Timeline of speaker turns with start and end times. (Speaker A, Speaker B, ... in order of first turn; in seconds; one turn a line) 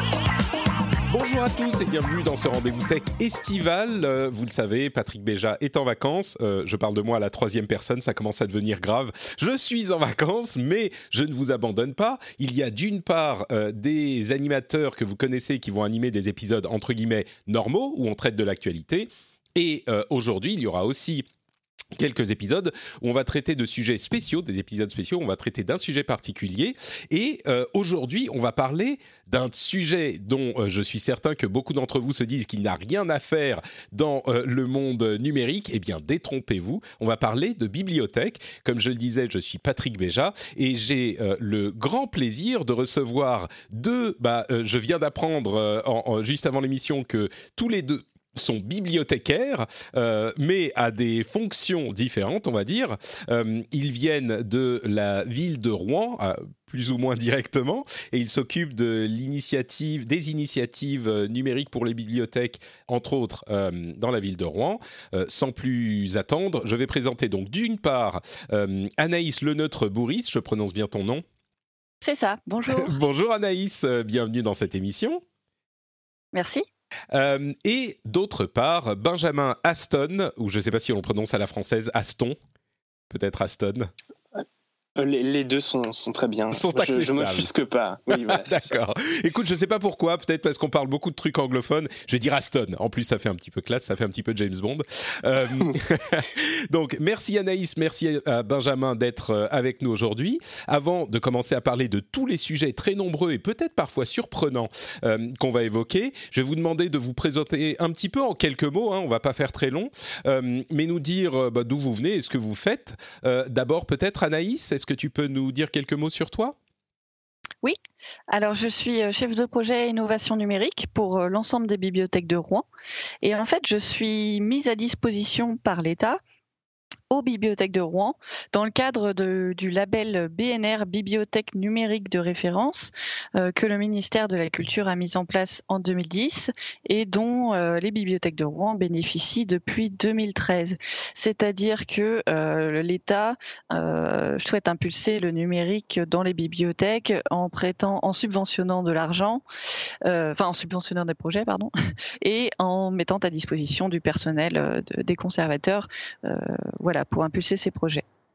Speaker A: 1.1-21.3
Speaker A: 22.0-71.2
Speaker B: 72.0-72.9
Speaker A: 72.7-75.2
Speaker B: 76.3-76.7
Speaker A: 77.1-82.4
Speaker A: 83.1-83.9
Speaker C: 85.0-88.8
Speaker A: 86.5-87.5
Speaker A: 88.1-116.6
Speaker C: 95.5-95.8
Speaker B: 118.3-122.6
Speaker B: 123.2-126.2
Speaker B: 127.1-149.4
Speaker B: 150.0-158.0